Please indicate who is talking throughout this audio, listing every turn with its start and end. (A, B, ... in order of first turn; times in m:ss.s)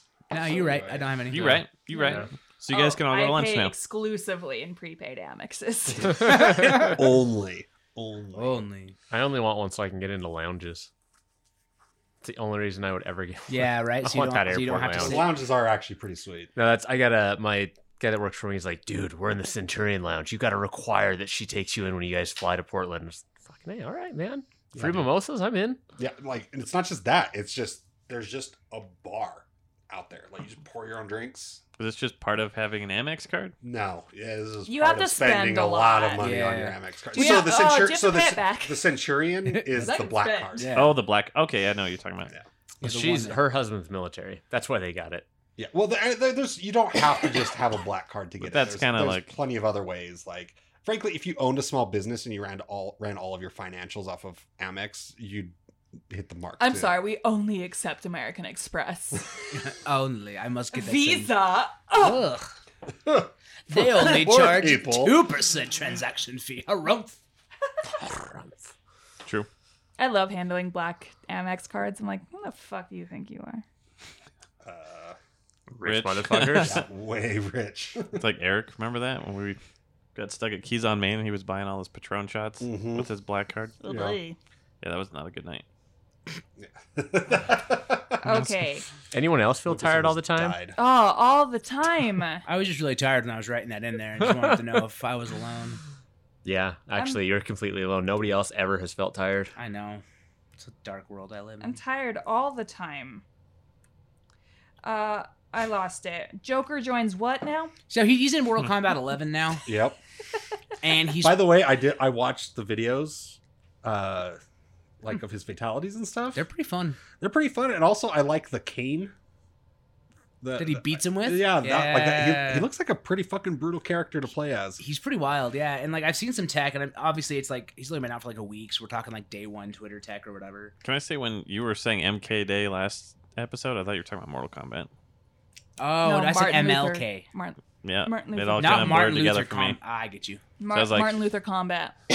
0:00.3-0:01.6 A
0:00.3-0:01.3 B
0:01.3-0:03.7 C
0:01.9-0:06.5 D
0:06.2-0:08.7 B
0:06.5-0:06.9 A
0:08.3-0:09.0 A
0:09.1-0:10.9 E
0:12.2-0:15.3 E
0:13.5-0:15.3 A
0:14.9-0:16.5 B
0:16.5-0:25.8 E
0:24.7-0:25.0 B
0:26.0-0:31.6 B
0:31.8-0:33.5 C
0:33.6-0:40.8 B
0:34.7-0:36.3 D
0:36.2-0:37.5 A
0:37.1-0:38.9 D
0:39.5-0:39.9 A
0:39.8-0:40.7 D
0:40.6-0:41.0 A
0:40.7-0:42.3 C
0:42.8-0:45.2 E
0:42.8-0:43.4 A
0:45.6-0:55.5 B
0:48.4-0:49.3 C
0:56.1-0:57.0 B
0:56.6-0:59.2 D
0:59.5-1:01.4 A
1:00.7-1:02.2 D
1:01.9-1:02.5 A
1:03.0-1:05.3 B
1:03.7-1:07.2 A
1:08.1-1:08.7 E
1:10.0-1:13.6 D
1:14.6-1:15.2 B
1:15.7-1:16.8 E
1:15.8-1:16.8 C
1:16.5-1:18.2 B
1:18.1-1:19.6 C
1:20.1-1:23.7 C
1:22.6-1:23.1 B
1:23.8-1:24.4 D
1:23.8-1:24.2 B
1:24.8-1:25.6 C
1:26.6-1:28.3 B
1:28.2-1:28.8 D
1:29.1-1:30.6 E
1:29.6-1:30.8 B
1:30.8-1:32.4 D
1:32.4-1:35.8 A
1:34.3-1:34.5 E
1:36.4-1:39.5 E
1:36.9-1:37.2 D
1:39.5-1:40.0 A
1:40.6-1:41.8 A
1:41.6-1:43.2 D
1:44.8-1:47.7 D
1:47.9-1:49.6 A
1:49.6-1:50.0 B
1:50.8-1:51.5 A
1:51.2-1:54.4 B
1:55.0-1:56.4 B
1:56.3-1:57.0 A
1:57.2-1:59.1 B
2:00.4-2:04.8 B
2:00.6-2:02.7 A
2:04.8-2:10.7 A
2:10.8-2:14.9 C
2:15.8-2:17.3 A
2:16.0-2:19.1 D
2:17.8-2:19.8 C
2:18.6-2:20.4 A
2:20.6-2:21.9 D
2:20.7-2:21.2 C